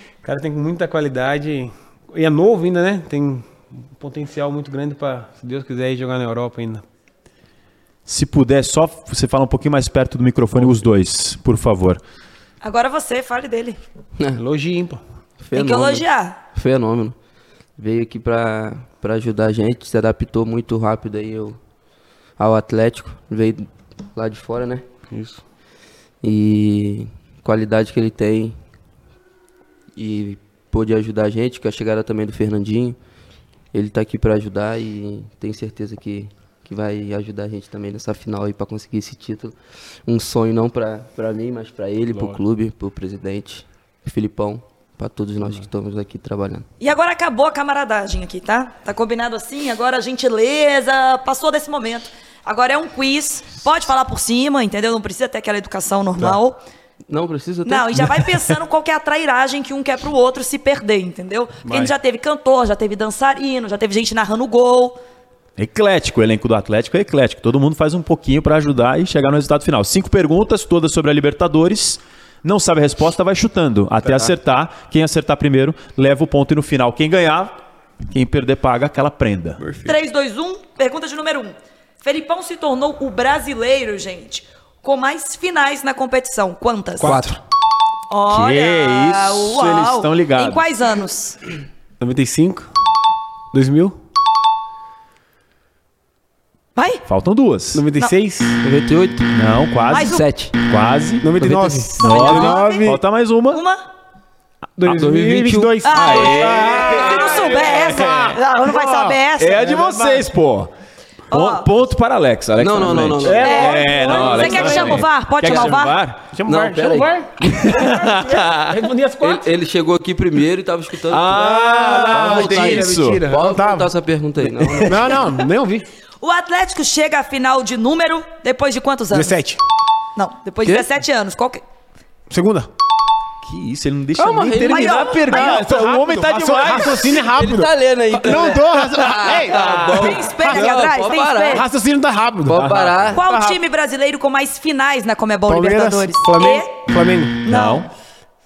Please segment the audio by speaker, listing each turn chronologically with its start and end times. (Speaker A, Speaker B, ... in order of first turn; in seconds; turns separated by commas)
Speaker A: 0.2-6.8, Speaker B: 8.1-12.0, Speaker C: 12.6-13.8, Speaker A: 14.3-15.0, Speaker D: 15.4-17.1, Speaker C: 15.5-16.4, Speaker D: 17.8-21.6, Speaker D: 22.4-24.9, Speaker A: 25.1-25.4, Speaker D: 26.2-28.5, Speaker D: 29.9-33.0, Speaker D: 33.7-39.5, Speaker D: 40.0-46.6, Speaker C: 46.8-56.6, Speaker D: 57.1-58.0, Speaker C: 57.6-65.0, Speaker A: 58.0-58.6, Speaker A: 61.6-61.9, Speaker B: 65.6-77.5, Speaker B: 78.1-79.7, Speaker C: 79.8-87.2, Speaker A: 87.0-87.4, Speaker C: 88.1-91.4, Speaker B: 88.3-90.7, Speaker A: 92.0-92.7, Speaker A: 93.5-94.0, Speaker C: 96.7-97.0, Speaker B: 97.0-97.8, Speaker A: 97.7-98.6, Speaker D: 98.6-99.3, Speaker B: 99.3-103.6, Speaker C: 99.9-100.2, Speaker D: 100.0-100.5, Speaker A: 101.2-103.0, Speaker C: 102.0-103.0, Speaker C: 103.5-103.8, Speaker A: 104.8-110.2, Speaker D: 104.8-107.4, Speaker C: 105.8-109.7, Speaker B: 105.9-108.3, Speaker B: 109.4-110.7, Speaker C: 111.3-111.7, Speaker B: 111.3-116.3, Speaker D: 112.6-114.6, Speaker A: 113.2-114.9, Speaker C: 113.4-116.0, Speaker A: 116.3-119.4, Speaker D: 116.4-117.7, Speaker B: 117.4-118.7, Speaker D: 119.2-121.5, Speaker B: 121.1-123.2, Speaker A: 121.3-123.9, Speaker D: 122.1-125.3, Speaker A: 124.4-125.9, Speaker C: 125.0-125.3, Speaker C: 126.2-129.4, Speaker A: 129.1-129.6, Speaker C: 130.2-131.6, Speaker D: 130.6-130.9, Speaker A: 132.3-132.7, Speaker B: 133.4-137.2, Speaker D: 134.2-135.4, Speaker C: 134.6-135.7, Speaker A: 135.3-140.8, Speaker D: 137.1-141.7, Speaker B: 139.3-140.0, Speaker C: 139.6-141.6, Speaker A: 141.5-142.6, Speaker D: 142.4-143.2, Speaker B: 142.5-143.2, Speaker C: 143.1-146.7, Speaker A: 143.2-143.6, Speaker A: 145.4-147.4, Speaker C: 147.4-147.9, Speaker B: 147.4-147.9